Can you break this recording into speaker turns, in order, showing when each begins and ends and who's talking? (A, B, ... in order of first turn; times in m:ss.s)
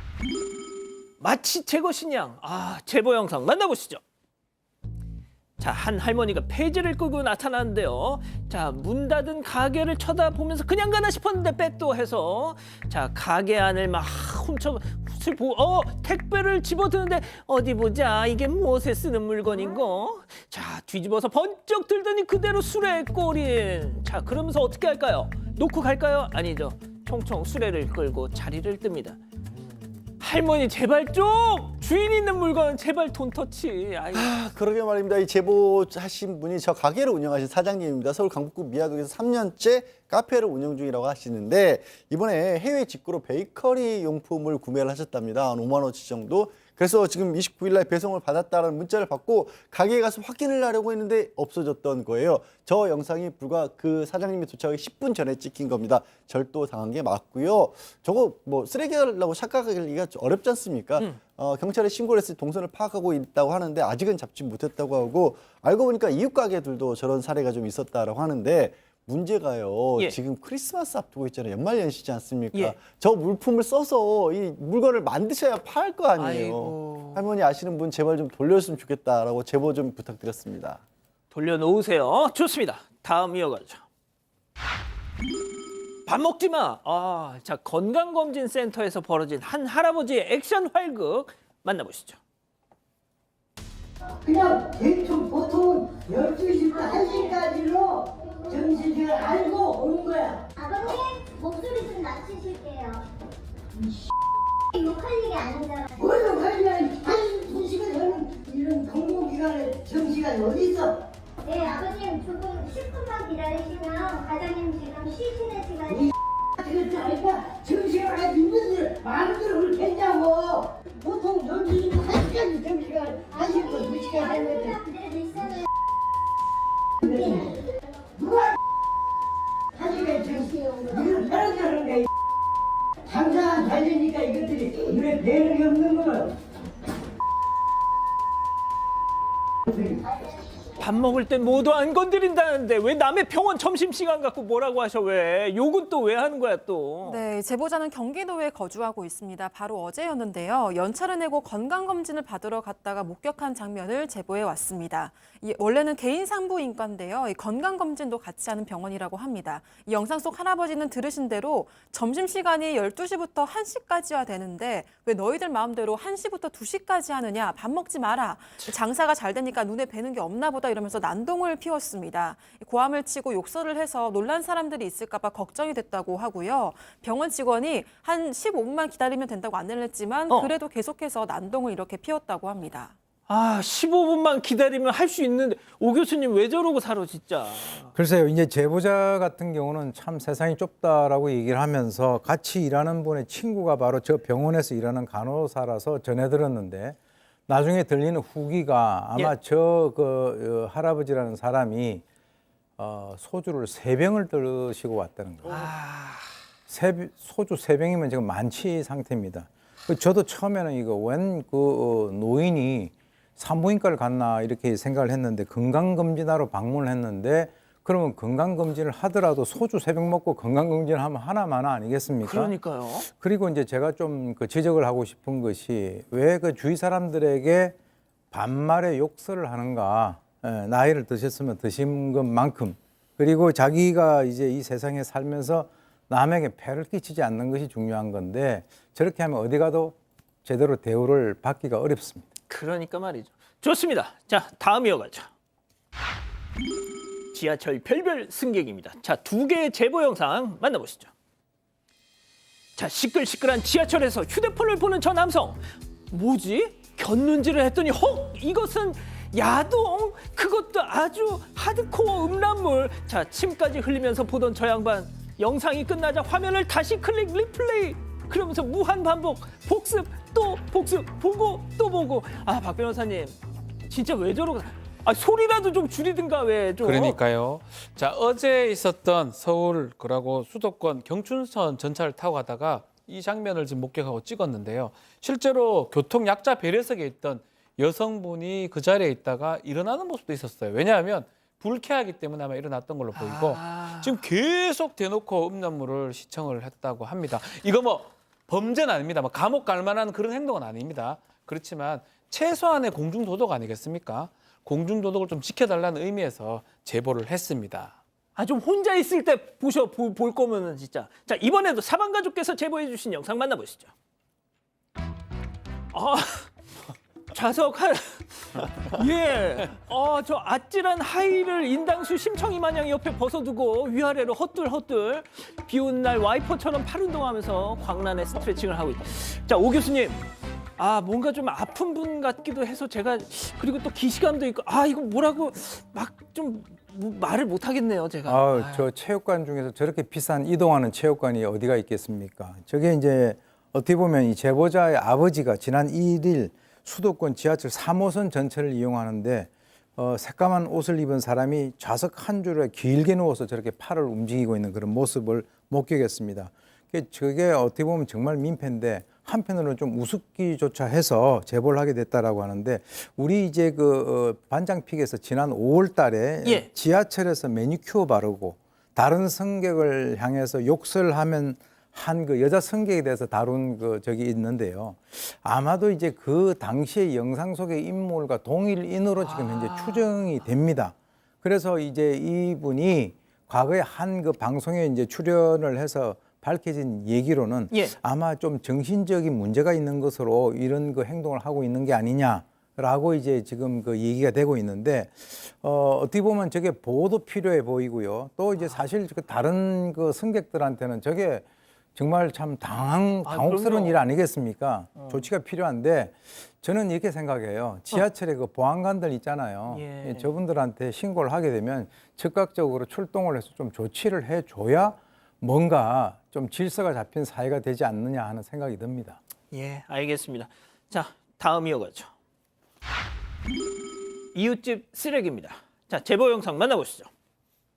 0:01.2-0:04.0 A
0:05.6-0:29.2 A
0:30.2-0:34.3 A
0:34.1-1:20.8 B
1:16.2-1:17.2 A
1:21.3-1:23.8 A
1:26.0-1:32.2 A
1:34.2-1:40.5 C
1:36.7-1:37.4 D
1:40.6-1:43.0 D
1:44.7-1:46.2 D
1:46.0-1:51.0 C
1:51.4-1:56.1 D
1:56.6-2:04.6 C
2:03.3-2:05.6 D
2:07.0-2:07.4 C
2:07.0-2:07.5 D
2:08.2-2:08.4 C
2:09.8-2:12.1 C
2:10.0-2:11.3 D
2:13.1-2:16.3 C
2:20.8-2:27.2 A
2:27.0-3:02.9 E
3:03.3-3:07.9 A
3:07.9-3:17.0 F
3:17.5-3:22.0 F
3:22.8-3:25.7 F
3:25.4-3:26.3 A
3:26.7-3:47.7 F
3:42.2-3:43.1 A
3:48.3-4:02.3 F
4:02.5-4:05.3 A
4:07.3-4:11.1 A
4:12.8-4:37.2 A
4:36.8-5:08.0 G
4:53.1-4:54.2 A
5:08.4-5:13.9 A
5:15.9-5:16.5 A
5:17.3-5:30.2 A
5:30.8-5:38.8 A
5:38.2-6:59.2 F
6:19.2-6:20.5 A
6:27.7-6:28.0 A
6:43.2-6:44.0 A
6:45.0-6:45.2 A
6:49.7-6:50.3 A
6:59.5-7:02.1 A
7:04.3-7:07.1 A